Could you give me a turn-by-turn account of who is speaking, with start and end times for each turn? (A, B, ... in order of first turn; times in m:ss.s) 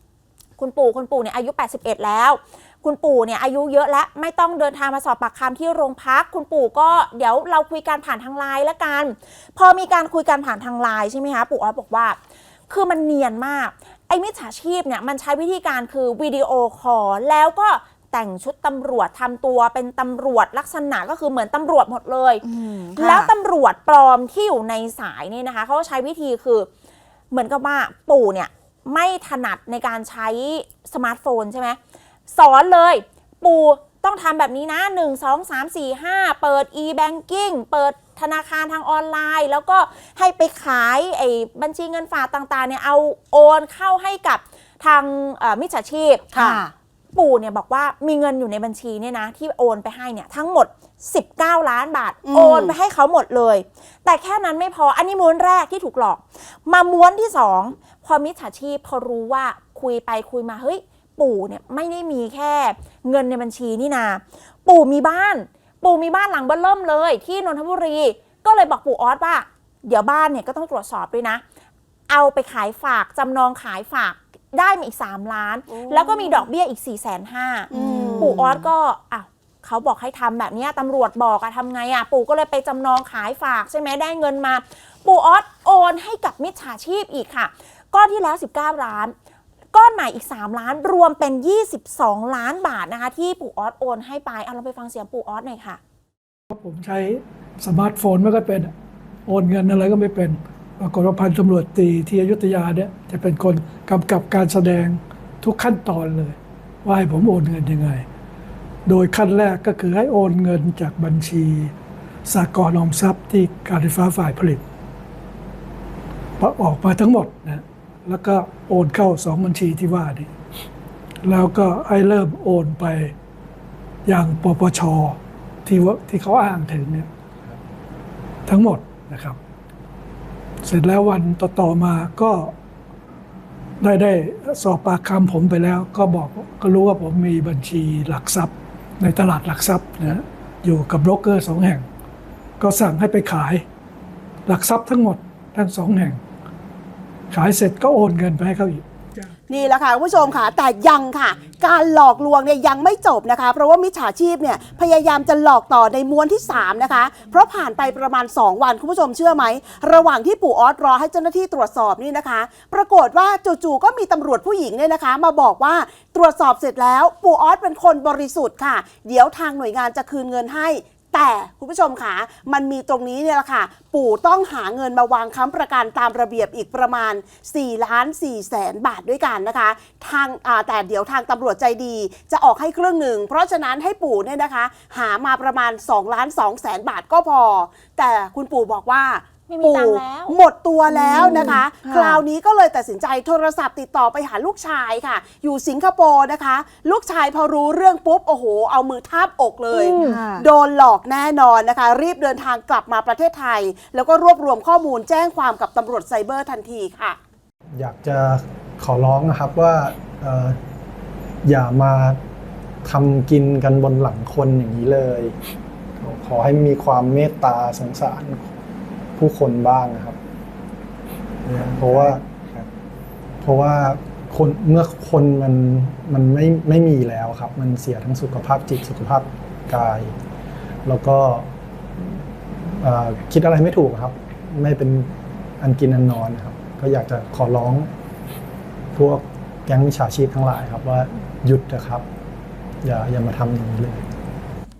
0:00.6-0:12.2 A
0:12.7-0:22.4 A
0:22.4-0:23.3 B
0:23.0-0:26.7 A
0:27.3-0:46.3 A
0:46.3-0:46.7 B
0:47.1-1:11.4 A
0:52.2-0:52.7 C
1:12.1-1:29.1 A
1:15.7-1:16.1 C
1:17.7-1:18.3 C
1:17.7-1:18.4 B
1:29.7-1:35.8 A
1:36.5-1:38.7 D
1:39.3-1:48.0 D
1:48.8-1:51.7 D
1:52.2-1:54.6 D
1:56.4-2:00.3 D
2:01.2-2:03.1 D
2:04.0-2:07.1 D
2:08.4-2:09.4 D
2:10.6-2:12.5 D
2:13.8-2:21.8 D
2:22.6-2:23.6 D
2:24.4-2:26.2 D
2:27.3-2:28.8 D
2:29.5-3:27.2 C
3:09.5-3:10.4 A
3:10.9-3:12.2 B
3:19.7-3:20.5 B
3:27.7-3:30.6 E
3:31.4-3:32.2 E
3:32.8-3:35.3 E
3:36.0-3:38.5 E
3:39.2-3:40.2 E
3:41.5-3:42.0 C
3:41.6-3:42.2 E
3:43.4-3:50.2 E
3:50.8-3:51.5 E
3:52.8-3:57.9 E
3:58.9-4:02.0 E
4:02.8-4:04.1 E